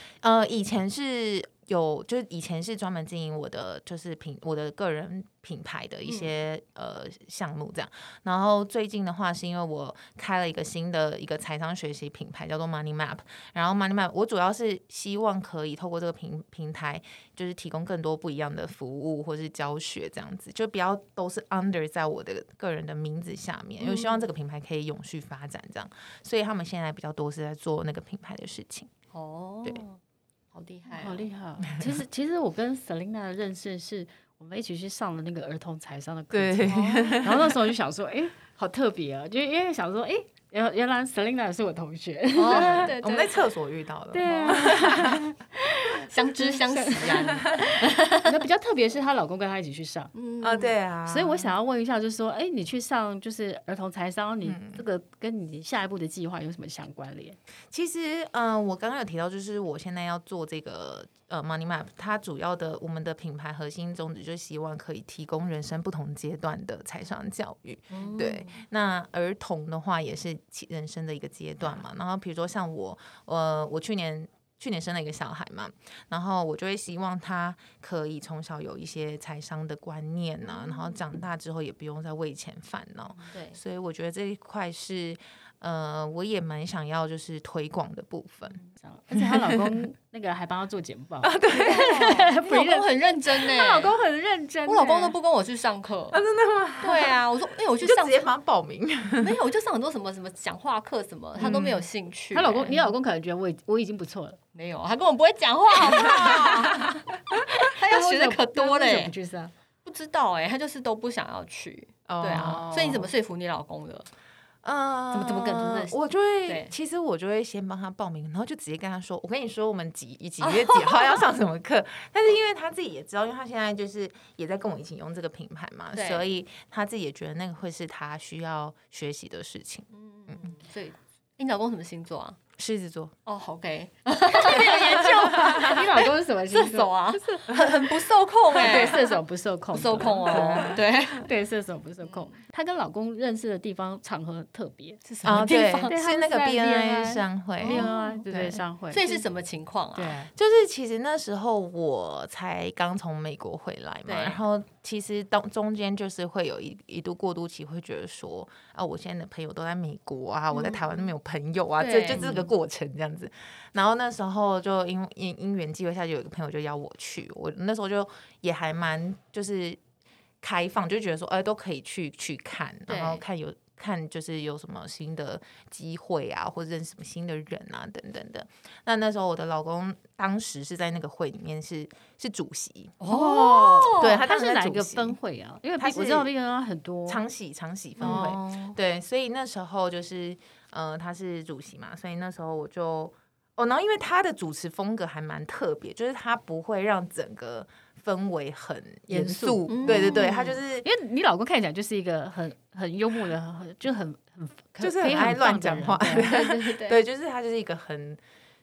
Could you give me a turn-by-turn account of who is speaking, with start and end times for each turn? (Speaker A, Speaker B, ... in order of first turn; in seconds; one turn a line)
Speaker A: 0.2-28.9
Speaker B: 23.8-24.3
Speaker B: 29.1-30.0
Speaker B: 30.5-31.3
Speaker C: 30.9-42.9
Speaker A: 36.3-37.5
Speaker B: 36.7-37.3
Speaker B: 42.4-43.5
Speaker A: 42.5-45.2
Speaker C: 44.1-50.1
Speaker B: 44.2-45.0
Speaker B: 46.1-48.3
Speaker A: 47.3-47.6
Speaker B: 50.1-50.8
Speaker A: 50.4-51.5
Speaker C: 51.0-57.4
Speaker A: 54.4-54.8
Speaker A: 57.7-88.6
Speaker B: 67.9-68.6
Speaker B: 80.4-81.0
Speaker B: 83.3-83.6
Speaker C: 88.7-95.2
Speaker A: 89.2-89.8
Speaker A: 91.2-92.0
Speaker B: 91.6-93.9
Speaker B: 94.7-96.2
Speaker A: 96.1-97.2
Speaker B: 96.8-98.3
Speaker A: 97.8-99.3
Speaker B: 99.2-102.8
Speaker A: 101.4-101.9
Speaker C: 102.3-104.4
Speaker B: 104.5-107.1
Speaker A: 105.8-107.0
Speaker C: 106.0-106.8
Speaker C: 107.3-109.5
Speaker B: 107.6-109.1
Speaker B: 109.8-114.1
Speaker A: 112.1-113.1
Speaker A: 114.6-130.4
Speaker C: 115.1-115.9
Speaker B: 115.2-115.8
Speaker B: 116.5-116.7
Speaker B: 120.4-121.2
Speaker B: 125.9-126.2
Speaker B: 129.9-132.4
Speaker A: 132.6-133.1
Speaker B: 133.2-141.3
Speaker C: 134.3-137.7
Speaker C: 138.5-149.2
Speaker A: 140.3-140.7
Speaker B: 142.0-142.3
Speaker B: 145.0-145.9
Speaker A: 145.2-148.6
Speaker B: 147.6-148.2
Speaker B: 148.9-150.2
Speaker C: 149.9-150.3
Speaker A: 150.3-169.8
Speaker B: 154.1-154.4
Speaker B: 160.5-161.1
Speaker B: 161.8-162.5
Speaker A: 170.4-183.1
Speaker B: 172.9-173.2
Speaker B: 183.0-184.2
Speaker C: 183.1-187.2
Speaker A: 183.9-185.2
Speaker A: 185.8-186.3
Speaker A: 187.1-200.9
Speaker B: 188.0-188.7
Speaker C: 188.0-188.7
Speaker C: 199.1-206.3
Speaker B: 199.7-200.6
Speaker A: 204.8-208.2
Speaker B: 206.1-207.0